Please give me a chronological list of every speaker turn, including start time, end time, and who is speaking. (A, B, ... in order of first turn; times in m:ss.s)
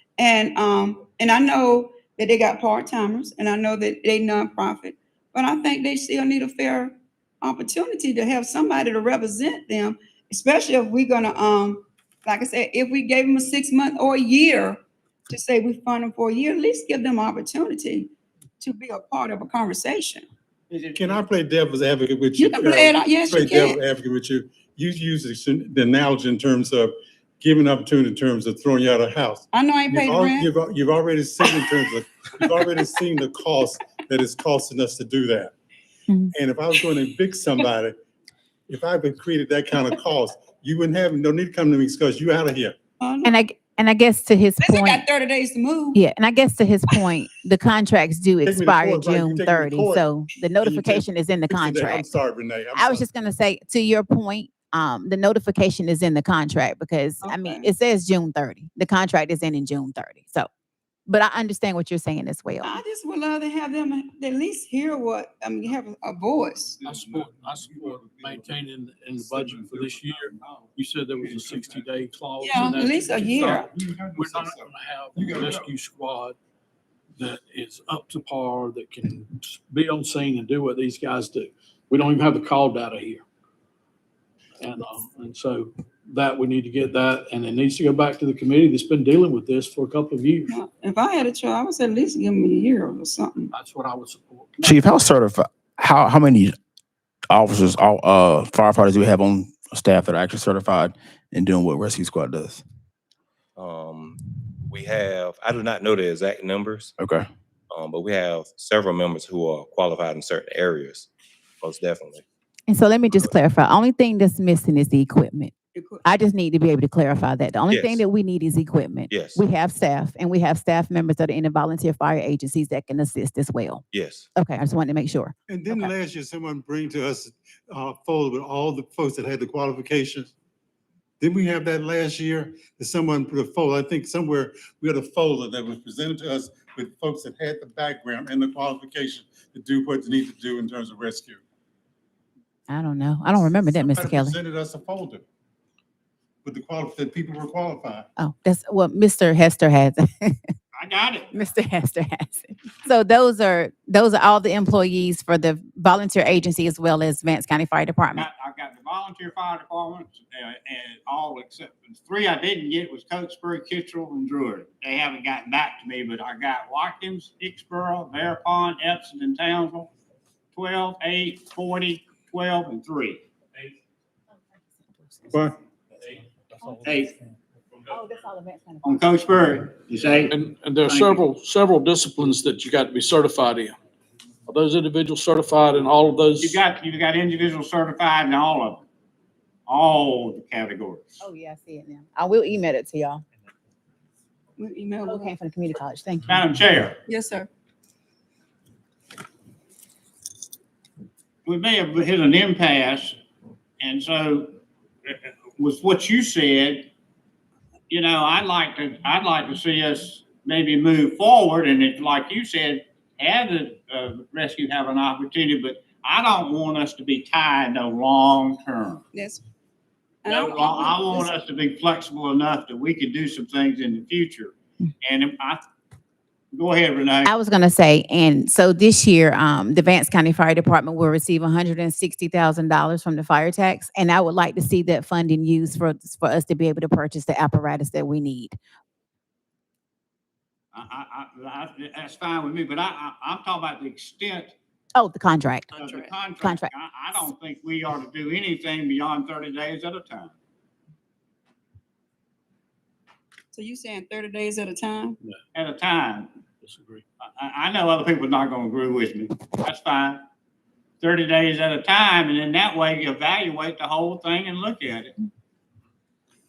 0:00.2-0:20.2 A
0:20.7-0:21.2 B
0:21.0-0:35.5 C
0:22.4-0:23.8 A
0:29.5-0:30.5 A
0:31.4-0:31.7 A
0:36.1-0:36.3 D
0:36.3-0:38.0 C
0:38.7-0:42.8 C
0:43.0-0:43.4 A
0:43.2-0:45.0 D
0:44.6-0:46.0 A
0:45.9-0:52.2 D
0:48.4-0:50.1 C
0:50.6-0:53.0 C
0:52.8-1:00.5 D
0:57.2-0:57.7 A
1:01.1-1:02.8 D
1:02.6-1:06.8 A
1:06.8-1:11.8 C
1:06.8-1:13.6 E
1:12.4-1:13.7 A
1:13.1-1:15.7 C
1:14.2-1:16.4 E
1:17.2-1:23.2 E
1:24.6-1:30.5 E
1:30.5-1:33.5 A
1:33.6-1:34.6 E
1:34.6-1:36.6 F
1:37.3-1:42.6 F
1:43.6-1:46.9 G
1:47.0-1:47.3 F
1:47.7-1:51.1 G
1:51.6-1:52.2 G
1:52.7-1:55.5 D
1:55.8-1:56.0 A
1:56.0-2:03.8 D
1:57.7-1:58.0 G
1:59.1-1:59.4 G
2:03.9-2:04.3 G
2:04.4-2:05.9 D
2:05.5-2:10.3 C
2:11.2-2:21.4 C
2:22.7-2:24.4 D
2:23.6-2:25.2 C
2:26.4-2:28.1 C
2:28.2-2:30.5 D
2:30.8-2:31.3 B
2:31.3-2:38.3 D
2:38.2-2:49.9 B
2:50.5-2:53.2 B
2:55.1-2:55.4 D
2:56.6-2:57.0 D
2:56.8-2:57.2 B
2:57.9-2:59.0 D
2:58.8-3:01.2 B
3:00.4-3:03.7 E
3:04.5-3:06.6 E
3:06.4-3:08.8 B
3:09.7-3:11.1 B
3:11.2-3:13.2 D
3:14.6-3:15.3 A
3:15.0-3:16.4 D
3:16.3-3:17.0 B
3:17.1-3:17.5 A
3:21.5-3:23.2 B
3:23.8-3:24.5 B
3:25.1-3:26.9 B
3:27.9-3:39.0 B
3:39.1-3:39.4 A
3:40.2-3:41.3 A
3:40.3-3:45.6 B
3:46.5-3:47.3 B
3:47.2-3:58.6 D
4:00.7-4:04.6 B
4:05.0-4:05.7 D
4:05.8-4:06.1 A
4:05.8-4:10.3 B
4:06.4-4:06.7 D
4:13.5-4:15.2 A
4:15.6-4:16.3 B
4:16.6-4:17.0 E
4:17.2-4:20.2 B
4:21.0-4:25.2 B